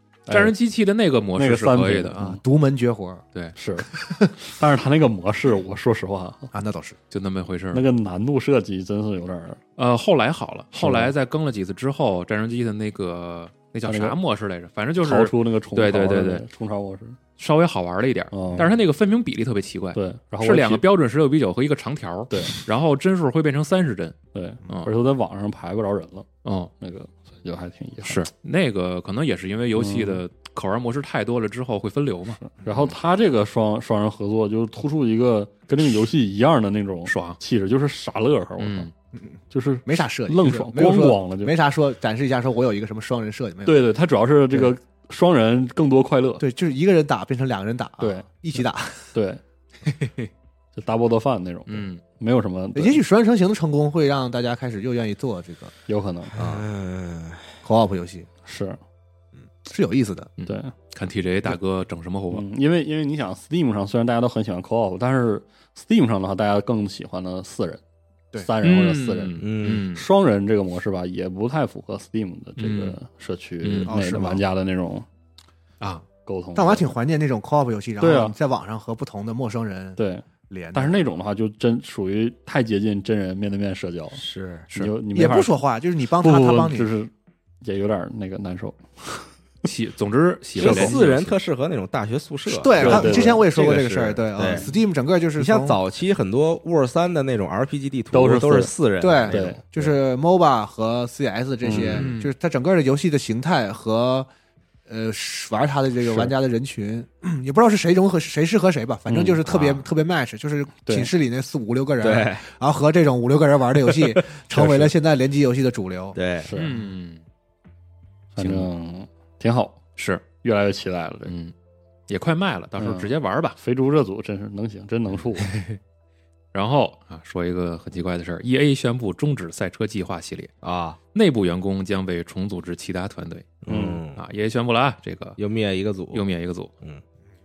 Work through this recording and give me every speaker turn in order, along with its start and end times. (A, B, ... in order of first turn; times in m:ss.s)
0:00.2-0:00.5 A
0:00.3-0:02.2 B
0:01.4-0:02.4 A
0:02.1-0:03.2 C
0:03.5-0:06.5 A
0:03.8-0:04.3 C
0:06.5-0:07.0 C
0:07.1-0:07.8 B
0:07.7-0:09.6 A
0:09.8-0:16.4 B
0:10.7-0:11.1 A
0:13.8-0:14.1 A
0:15.0-0:17.2 A
0:17.4-0:24.2 B
0:18.3-0:18.7 A
0:19.9-0:20.8 A
0:22.3-0:22.6 A
0:24.3-0:26.3 A
0:26.4-0:26.7 B
0:26.8-0:28.2 A
0:28.0-0:32.4 B
0:29.8-0:30.2 A
0:32.4-0:38.9 A
0:37.1-0:37.4 B
0:38.6-0:38.9 B
0:39.1-0:43.8 C
0:39.5-0:41.5 A
0:43.6-0:46.4 A
0:46.4-0:49.1 C
0:48.0-0:48.2 A
0:49.1-0:49.4 A
0:50.7-0:53.0 A
0:51.7-0:52.0 B
0:52.7-0:55.7 C
0:55.9-0:56.4 A
0:56.4-0:57.6 D
0:57.6-0:58.3 C
0:58.4-0:58.8 A
0:59.6-1:00.3 C
1:00.4-1:02.4 B
1:00.4-1:00.7 A
1:02.3-1:07.8 A
1:08.4-1:15.0 A
1:08.6-1:10.0 B
1:09.4-1:09.9 D
1:12.6-1:13.0 B
1:13.6-1:14.0 B
1:13.8-1:14.4 C
1:15.8-1:16.0 B
1:16.2-1:16.9 A
1:16.5-1:20.0 C
1:18.0-1:18.3 A
1:20.0-1:25.5 A
1:20.5-1:21.0 C
1:24.2-1:24.7 D
1:25.1-1:26.9 C
1:26.2-1:27.1 A
1:27.6-1:29.2 A
1:29.6-1:31.3 B
1:30.6-1:34.7 D
1:30.6-1:31.0 A
1:32.5-1:35.8 C
1:32.8-1:33.5 A
1:35.4-1:39.6 D
1:38.1-1:38.7 A
1:39.0-1:44.3 C
1:39.3-1:39.6 A
1:41.6-1:42.0 A
1:41.7-1:42.1 D
1:42.0-1:42.3 B
1:44.9-1:56.2 C
1:49.1-1:49.4 A
1:49.4-1:49.9 D
1:50.8-1:51.1 A
1:52.0-1:52.4 D
1:54.5-1:54.9 A
1:56.1-1:56.5 D
1:56.4-1:56.8 A
1:56.6-1:57.2 B
1:58.3-1:59.8 A
1:58.4-1:58.7 B
2:00.0-2:00.2 B
2:00.4-2:01.3 A
2:01.3-2:01.5 B
2:02.1-2:03.6 B
2:02.8-2:05.5 A
2:05.4-2:05.8 B
2:06.5-2:10.5 B
2:10.6-2:11.0 D
2:11.1-2:15.4 B
2:13.6-2:14.2 D
2:13.7-2:14.0 A
2:15.4-2:16.2 D
2:16.1-2:16.7 B